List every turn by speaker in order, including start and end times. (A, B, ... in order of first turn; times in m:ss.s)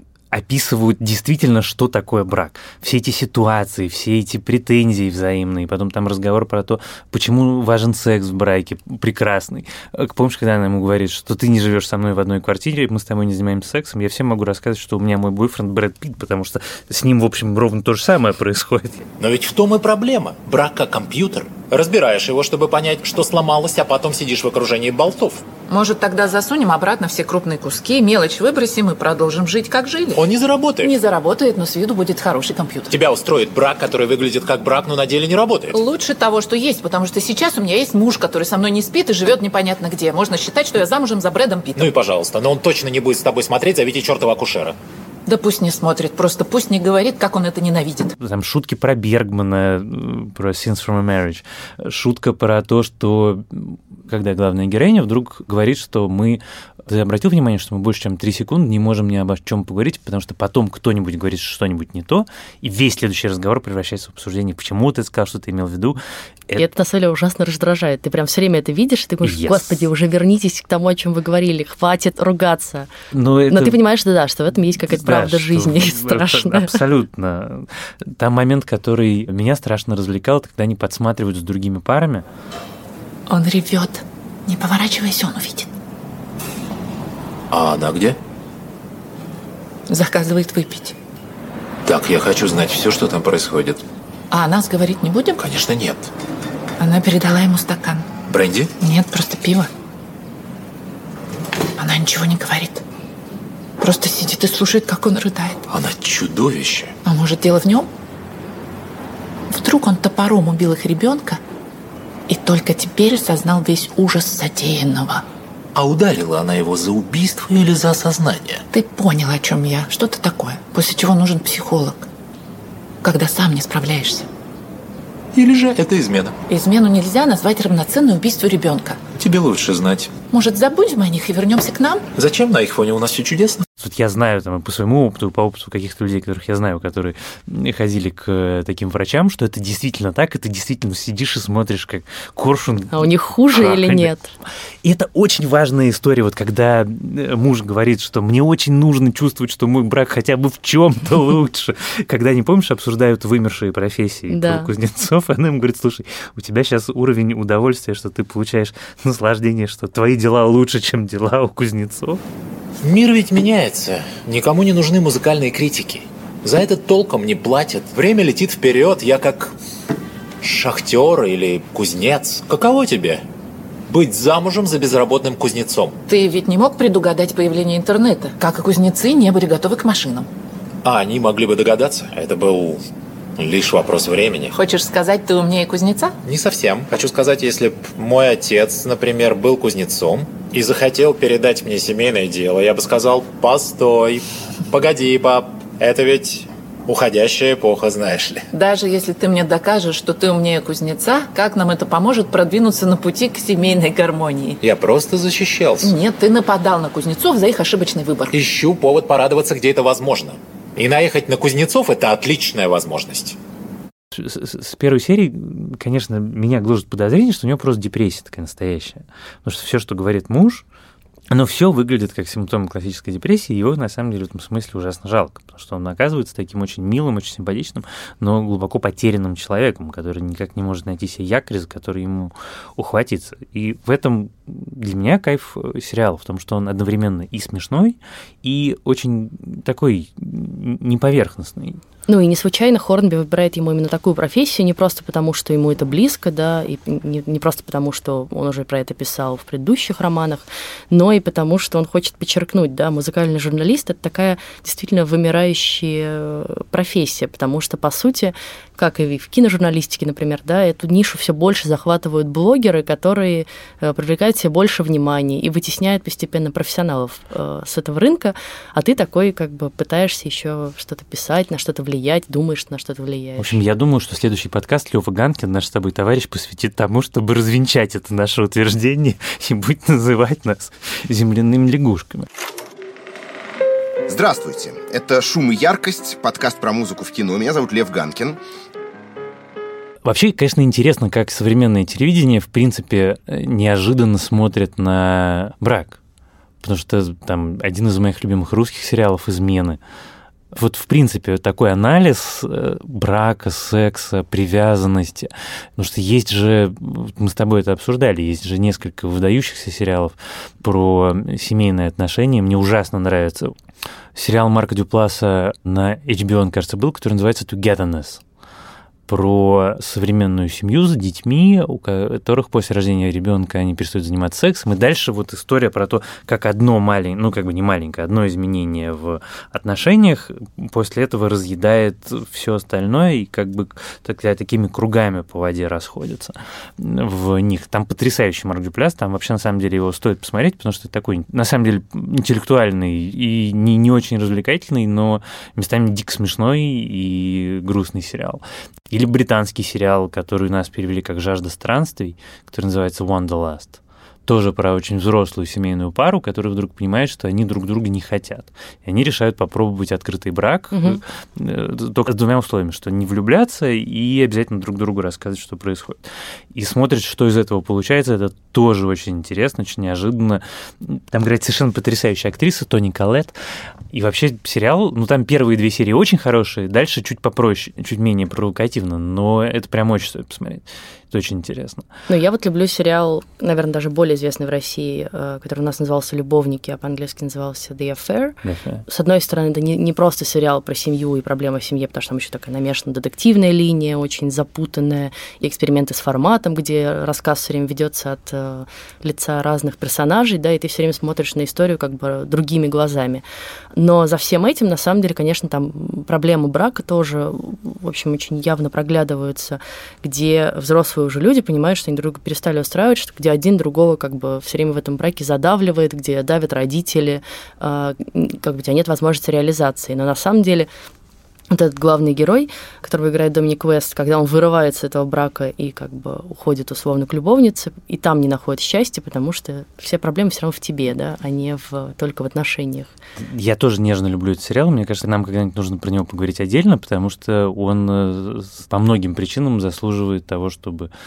0:00.3-0:19.0 A
0:19.2-0:25.4 B
0:25.7-0:30.2 C
0:30.1-0:30.9 B
0:30.8-0:33.0 C
0:32.9-0:35.8 B
0:35.7-0:41.9 C
0:41.8-0:44.8 B
0:45.2-0:48.1 C
0:48.2-1:06.6 A
1:06.5-1:12.9 D
1:09.2-1:09.9 A
1:13.1-1:13.8 A
1:13.5-1:16.8 D
1:14.8-1:22.2 A
1:23.3-1:25.7 C
1:27.5-1:28.2 B
1:29.9-1:30.9 C
1:31.8-1:33.8 B
1:34.3-1:35.4 C
1:35.4-1:36.1 B
1:36.8-1:38.1 C
1:38.3-1:38.7 B
1:38.8-1:39.7 C
1:41.8-1:42.8 C
1:43.8-1:45.6 C
1:45.7-1:46.9 B
1:47.0-1:47.9 C
1:49.5-1:51.4 C
1:52.3-1:55.2 C
1:55.7-1:58.6 B
1:58.7-2:02.1 C
2:03.0-2:04.3 C
2:05.3-2:06.3 B
2:06.5-2:09.0 C
2:09.2-2:10.1 B
2:10.3-2:12.0 C
2:12.1-2:13.6 B
2:13.8-2:24.1 A
2:22.9-2:24.3 D
2:24.8-2:42.2 A
2:34.3-2:34.7 D
2:42.8-2:49.5 B
2:50.4-2:53.2 B
2:53.9-2:56.0 B
2:56.1-3:00.3 C
3:00.8-3:02.8 B
3:03.4-3:04.5 B
3:04.5-3:06.1 C
3:06.2-3:18.4 B
3:18.5-3:24.6 C
3:24.6-3:25.9 B
3:25.8-3:28.3 C
3:28.3-3:33.4 B
3:34.1-3:40.6 A
3:41.3-4:01.8 A
4:02.1-4:33.6 D
4:33.4-4:42.3 A
4:44.1-4:48.4 E
4:50.0-4:56.0 A
4:56.6-4:59.8 A
5:00.5-5:13.6 A
5:14.1-5:18.2 A
5:19.1-6:13.3 A
6:00.7-6:01.0 D
6:13.9-6:21.9 A
6:22.1-6:43.2 D
6:28.4-6:28.8 A
6:43.7-7:00.7 D
7:01.5-7:12.9 D
7:13.2-7:20.9 A